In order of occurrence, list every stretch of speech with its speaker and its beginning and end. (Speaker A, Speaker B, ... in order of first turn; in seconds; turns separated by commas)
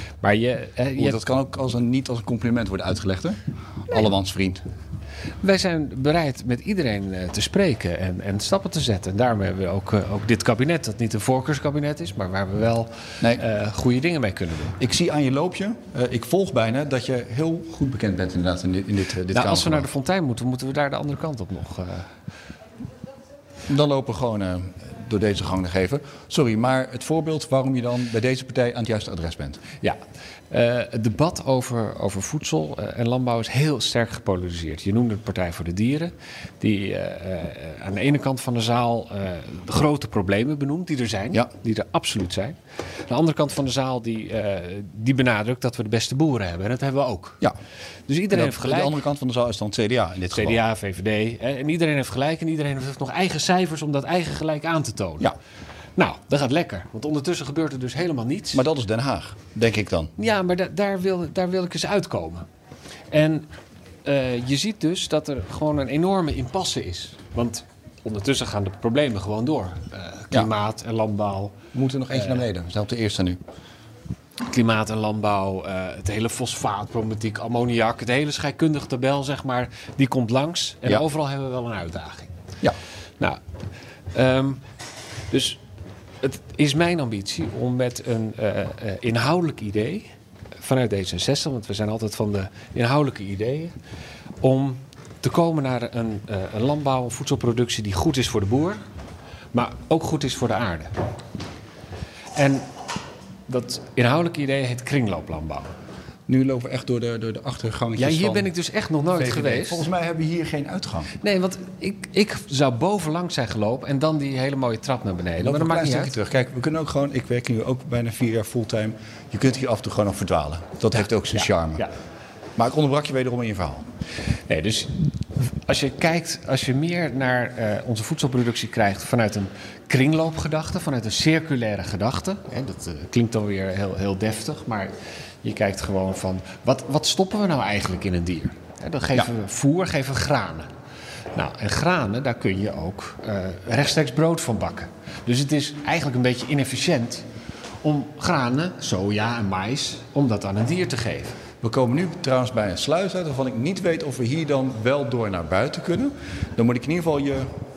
Speaker A: 0.2-1.2, Speaker B: 1.0-4.6, Speaker A: 5.4-14.8, Speaker B: 14.8-19.9, Speaker A: 19.3-22.1, Speaker B: 23.7-29.6, Speaker A: 30.5-42.5, Speaker A: 43.1-47.4, Speaker A: 48.1-49.0, Speaker B: 48.3-50.6, Speaker A: 50.3-55.3, Speaker A: 56.0-58.6, Speaker B: 58.5-60.1, Speaker A: 60.2-62.4, Speaker A: 63.1-63.5, Speaker A: 64.0-71.6, Speaker B: 71.7-73.4, Speaker A: 72.1-72.4, Speaker A: 74.5-82.3, Speaker A: 84.1-84.6, Speaker A: 85.3-85.6, Speaker A: 86.2-93.7, Speaker A: 94.4-98.8, Speaker A: 99.5-100.9, Speaker A: 102.3-102.7, Speaker A: 103.5-105.7, Speaker B: 106.3-108.5, Speaker A: 108.0-109.8, Speaker B: 109.1-111.1, Speaker A: 111.2-116.1, Speaker B: 115.4-121.9, Speaker A: 121.3-121.9, Speaker B: 122.6-123.8, Speaker A: 124.5-134.9, Speaker A: 135.4-140.7, Speaker A: 141.3-147.2, Speaker A: 147.8-151.4, Speaker B: 151.6-157.5